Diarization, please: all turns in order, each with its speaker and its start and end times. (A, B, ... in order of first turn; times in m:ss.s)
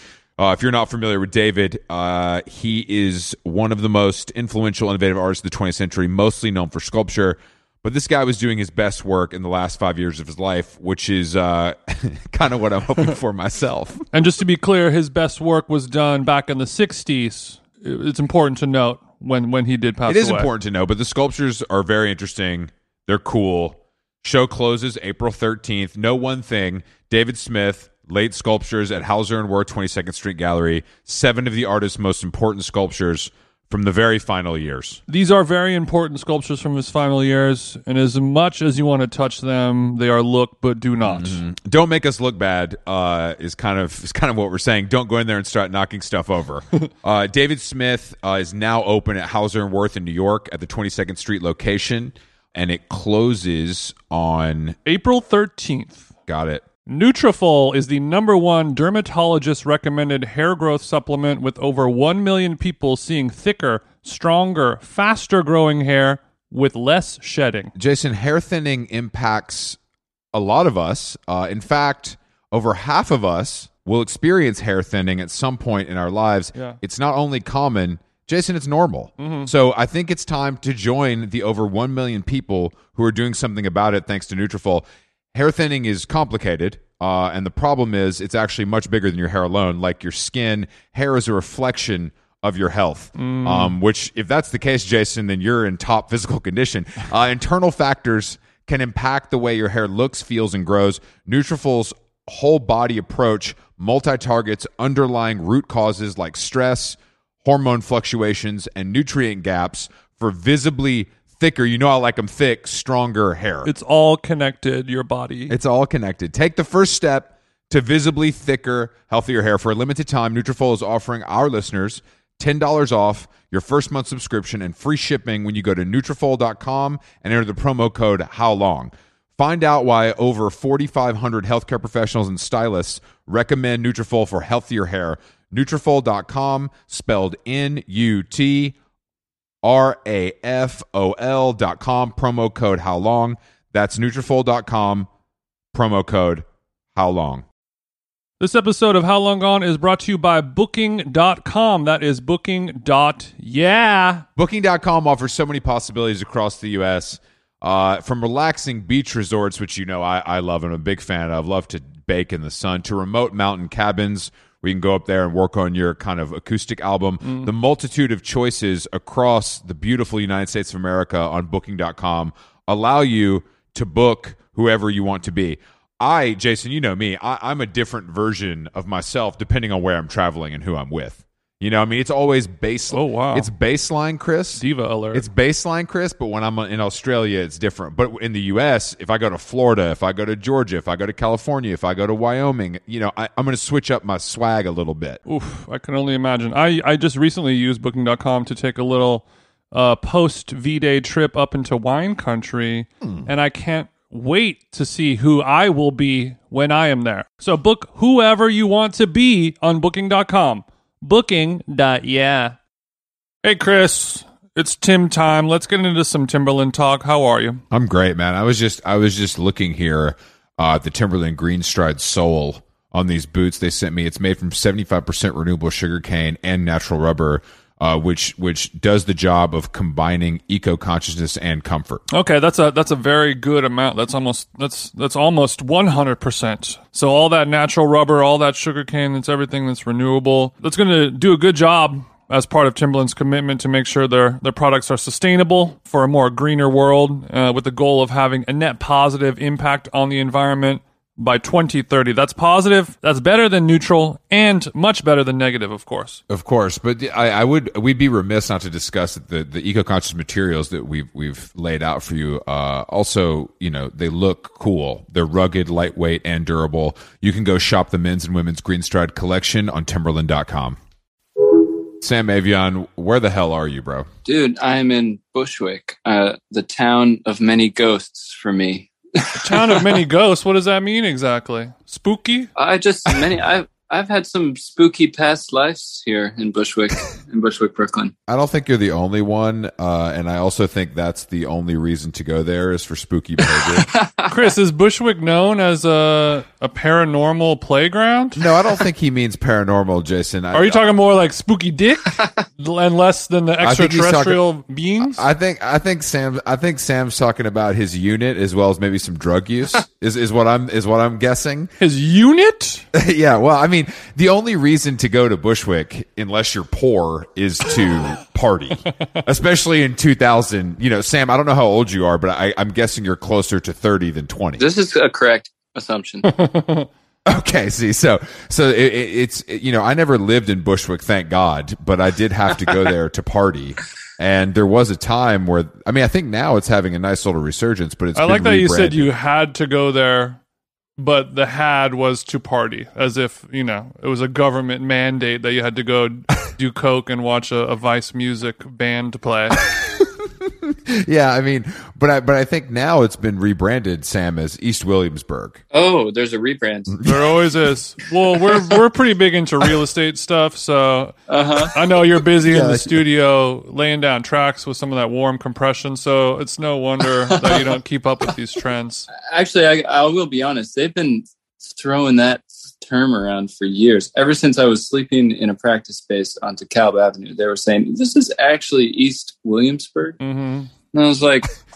0:00.4-0:14.0 A
0:14.1-0:20.5 B
0:20.1-0:35.0 A
0:35.1-0:41.4 B
0:41.0-0:54.8 A
0:54.9-0:56.1 B
0:56.3-0:56.6 A
0:56.9-1:07.7 B
1:07.8-1:09.8 A
1:10.3-1:53.7 A
1:19.2-1:19.5 B
1:33.2-1:33.8 B
1:53.6-1:55.6 B
1:55.5-2:18.8 A
2:19.6-2:25.1 A
2:25.7-2:27.4 A
2:28.4-2:34.2 B
2:34.4-3:15.2 A
2:47.2-2:47.5 B
3:02.9-3:03.5 B
3:04.6-3:05.3 B
3:15.3-3:32.6 B
3:23.0-3:23.3 A
3:33.4-3:37.6 B
3:37.7-3:52.0 A
3:52.1-4:16.2 B
4:16.3-4:30.8 A
4:32.0-4:34.1 A
4:34.3-4:40.0 C
4:39.4-4:42.5 B
4:42.6-4:48.1 C
4:48.3-4:53.9 A
4:53.6-4:54.4 C
4:54.3-4:58.5 B
4:58.4-5:00.8 A
5:00.5-5:05.2 B
5:03.6-5:04.4 A
5:05.0-5:11.7 A
5:11.8-5:12.8 B
5:12.9-5:24.6 A
5:24.6-5:26.3 C
5:26.2-5:26.9 B
5:27.3-5:39.1 A
5:38.2-5:40.4 B
5:41.0-5:49.6 B
5:49.7-5:55.6 A
5:55.7-5:57.0 C
5:56.9-5:57.4 A
5:57.0-6:09.1 B
6:01.3-6:01.8 C
6:02.4-6:03.0 A
6:07.3-6:07.7 C
6:09.1-6:20.2 C
6:20.2-6:20.7 B
6:20.9-6:21.5 C